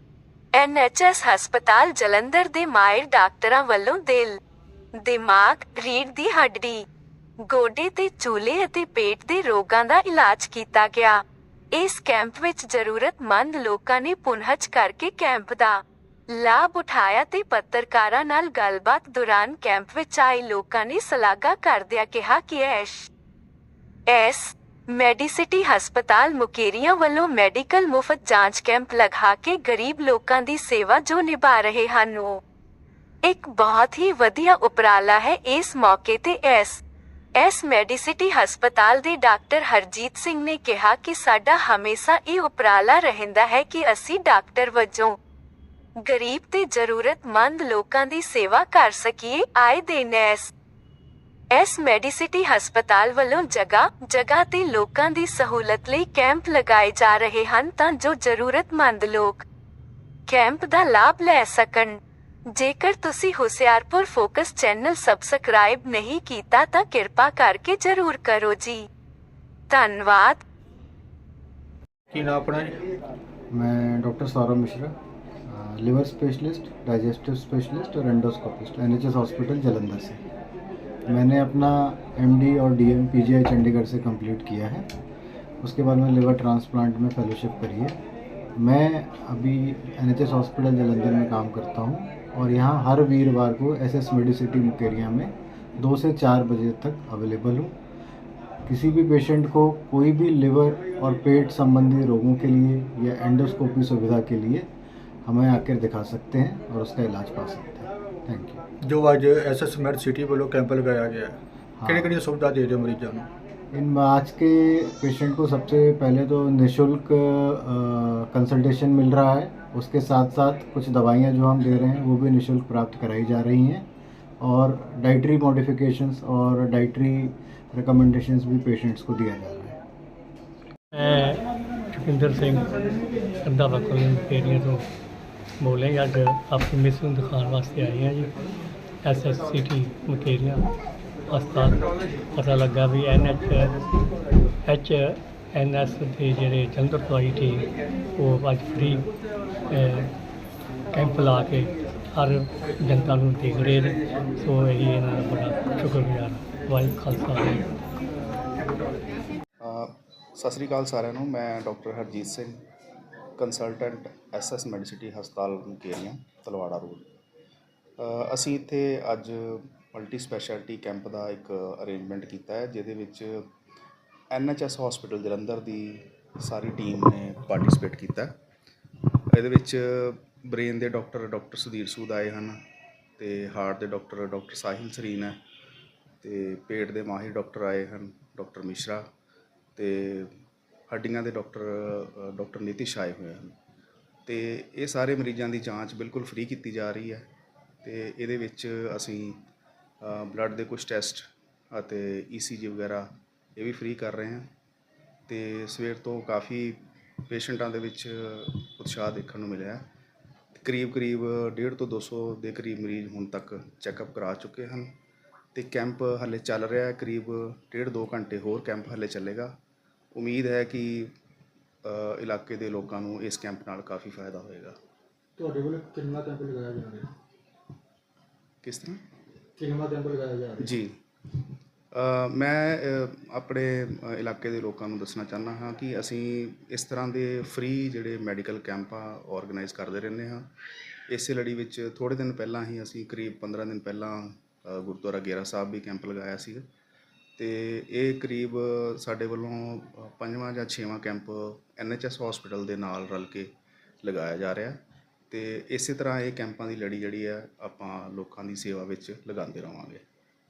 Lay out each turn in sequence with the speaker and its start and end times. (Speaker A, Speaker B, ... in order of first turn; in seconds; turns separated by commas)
Speaker A: 0.5-4.4, Speaker A: 5.0-6.8, Speaker A: 7.5-11.2, Speaker A: 11.7-15.8, Speaker A: 16.3-23.1, Speaker A: 24.1-32.4, Speaker A: 33.2-36.8, Speaker A: 37.4-45.2, Speaker A: 46.0-50.5, Speaker A: 51.5-59.5, Speaker A: 60.3-62.0, Speaker A: 62.5-68.9, Speaker A: 69.7-70.4, Speaker B: 72.1-72.8, Speaker C: 73.5-75.0, Speaker C: 75.5-80.2, Speaker C: 81.1-84.9, Speaker C: 85.6-88.0, Speaker C: 88.6-97.7, Speaker C: 98.7-104.7, Speaker C: 105.3-108.6, Speaker B: 108.8-113.3, Speaker C: 111.8-112.2, Speaker C: 113.7-123.9, Speaker C: 124.4-129.8, Speaker D: 130.9-131.4, Speaker D: 131.9-132.7, Speaker D: 133.4-134.9, Speaker D: 135.6-138.3, Speaker D: 139.0-140.7, Speaker D: 141.3-143.8, Speaker D: 144.7-149.1, Speaker D: 149.7-150.1, Speaker D: 150.9-157.7, Speaker E: 159.6-162.6, Speaker E: 163.4-167.1, Speaker E: 168.0-173.5, Speaker E: 174.3-178.3, Speaker E: 179.3-182.6, Speaker E: 183.2-185.4, Speaker E: 186.2-189.0, Speaker E: 189.8-190.3, Speaker E: 190.9-193.5, Speaker E: 194.3-197.3, Speaker E: 197.8-199.4, Speaker E: 200.0-204.5, Speaker E: 205.3-209.9, Speaker E: 210.6-214.9, Speaker E: 215.6-219.5, Speaker E: 220.1-221.1, Speaker E: 221.8-224.8, Speaker F: 225.4-227.1, Speaker E: 228.6-229.0, Speaker F: 229.6-230.7, Speaker E: 230.6-230.9, Speaker E: 231.9-240.5, Speaker E: 241.1-246.7, Speaker E: 247.4-253.5, Speaker E: 254.0-254.8, Speaker E: 255.3-260.0